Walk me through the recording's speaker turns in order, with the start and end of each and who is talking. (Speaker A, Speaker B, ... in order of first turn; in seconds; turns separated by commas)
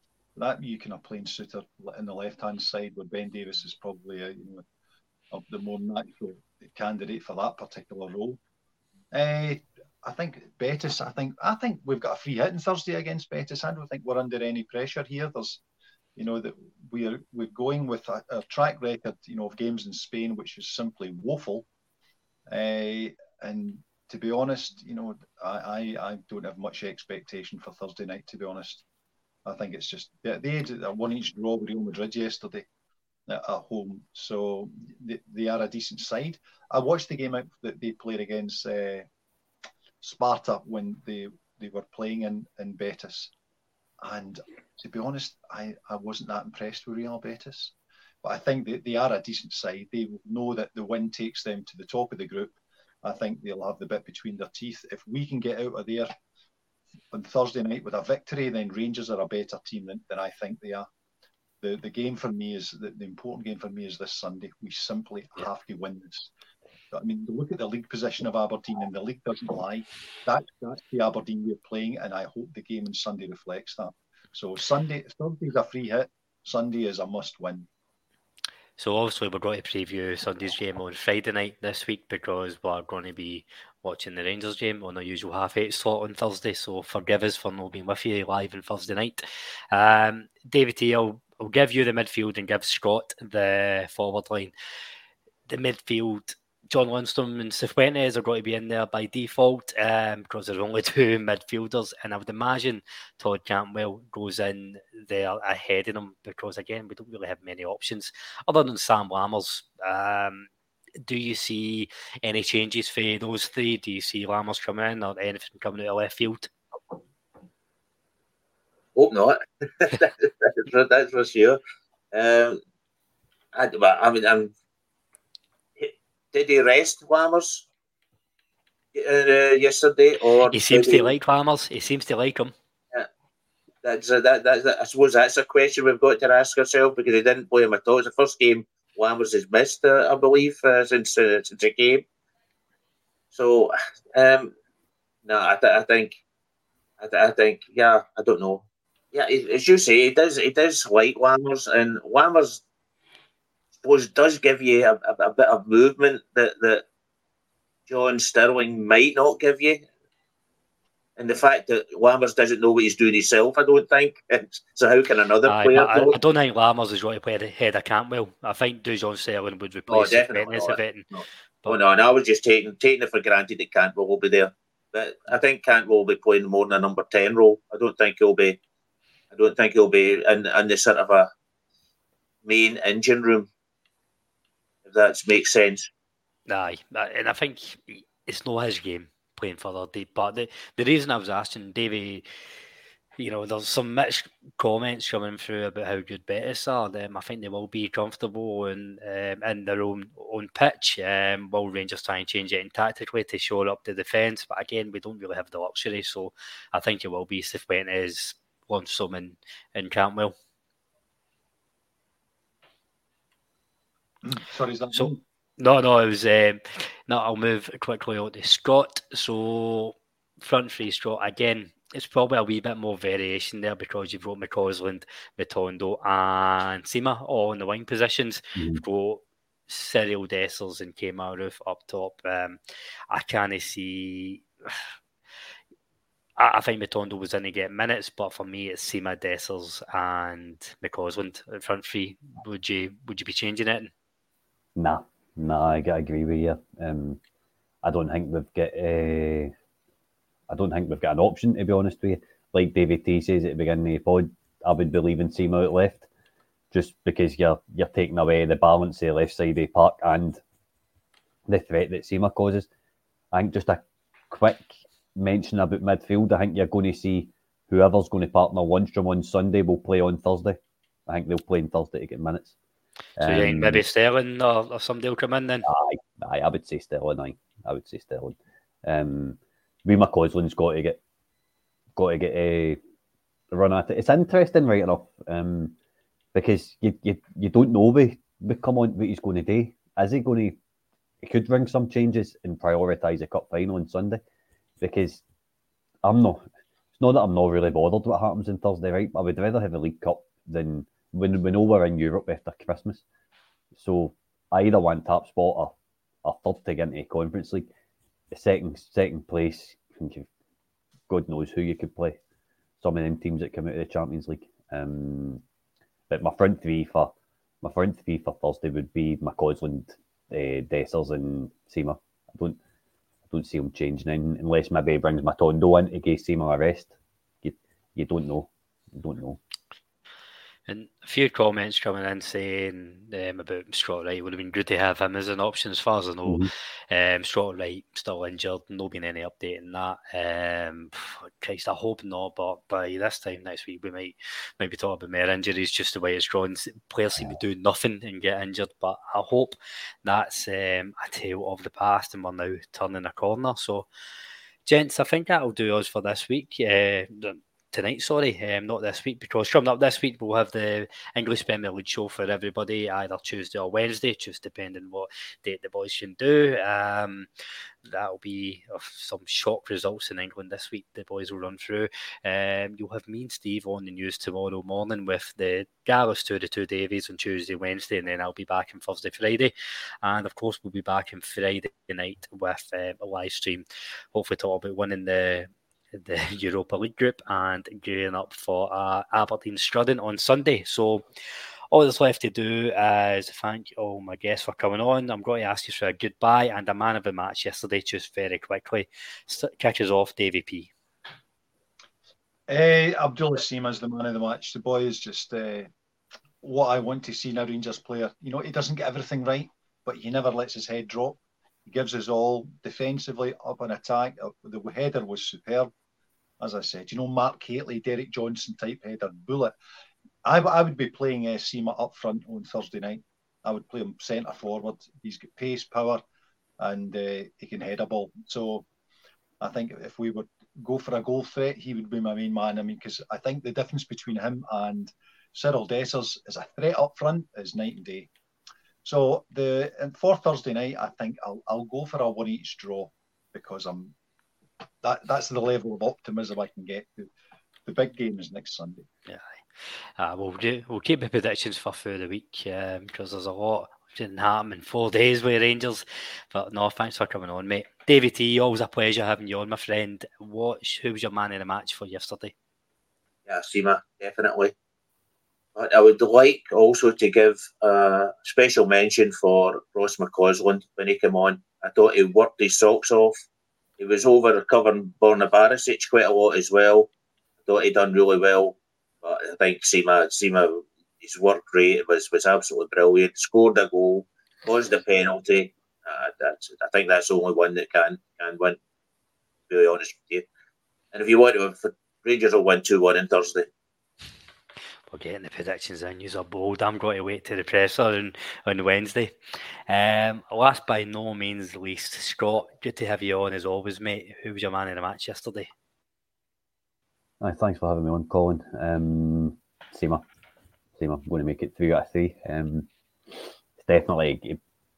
Speaker A: 0.4-4.6, Speaker A: 5.3-8.4, Speaker A: 9.1-15.6, Speaker A: 16.2-21.7, Speaker A: 22.5-28.8, Speaker A: 29.5-32.6, Speaker A: 33.3-39.1, Speaker A: 40.0-43.3, Speaker A: 44.0-56.1, Speaker A: 57.1-60.9, Speaker A: 61.6-66.3, Speaker A: 66.9-77.7, Speaker B: 78.8-94.5, Speaker B: 95.5-110.5, Speaker B: 111.0-116.5, Speaker C: 119.0-121.6, Speaker C: 122.1-122.6, Speaker C: 123.5-124.5, Speaker C: 125.8-127.7, Speaker C: 128.9-131.1, Speaker B: 130.5-132.5, Speaker C: 133.8-142.1, Speaker C: 143.3-144.5, Speaker C: 145.3-146.2, Speaker C: 147.0-152.6, Speaker C: 153.8-156.8, Speaker C: 157.9-159.8, Speaker C: 161.2-166.2, Speaker B: 165.5-171.1, Speaker C: 169.9-178.6, Speaker C: 179.3-181.3, Speaker C: 182.4-183.5, Speaker C: 184.9-185.9, Speaker B: 186.5-192.2, Speaker B: 193.2-210.3, Speaker A: 214.2-215.2, Speaker B: 214.9-232.6, Speaker D: 228.6-228.8, Speaker B: 233.1-234.8, Speaker B: 236.4-243.9, Speaker D: 244.8-247.2, Speaker D: 247.8-249.5, Speaker D: 250.5-256.1, Speaker D: 256.7-260.4, Speaker D: 261.5-262.7, Speaker D: 263.3-272.6, Speaker D: 273.2-273.8, Speaker B: 273.2-275.7, Speaker D: 275.6-281.0, Speaker D: 282.0-282.8, Speaker D: 283.5-285.8, Speaker D: 286.3-290.6, Speaker D: 291.2-294.2, Speaker D: 294.8-295.2, Speaker D: 296.0-303.0, Speaker D: 303.7-307.7, Speaker D: 308.3-310.3, Speaker D: 311.1-312.2, Speaker D: 312.8-315.4, Speaker D: 316.1-322.6, Speaker D: 323.3-329.4, Speaker B: 330.7-353.9, Speaker B: 354.7-367.3, Speaker B: 367.9-391.1, Speaker B: 391.7-400.7, Speaker A: 402.5-405.7, Speaker A: 406.4-415.7, Speaker A: 416.4-419.5, Speaker A: 420.2-426.0, Speaker A: 426.6-428.7, Speaker A: 429.4-438.1, Speaker A: 438.9-443.9, Speaker A: 444.8-447.1, Speaker A: 447.6-448.9, Speaker B: 450.0-462.3, Speaker C: 463.3-464.5, Speaker C: 465.6-473.1, Speaker C: 473.8-476.9, Speaker C: 477.5-488.6, Speaker C: 489.5-490.2, Speaker C: 490.9-493.5, Speaker B: 494.9-499.1, Speaker B: 499.7-505.5, Speaker D: 507.2-510.0, Speaker D: 510.8-512.7, Speaker D: 513.6-514.4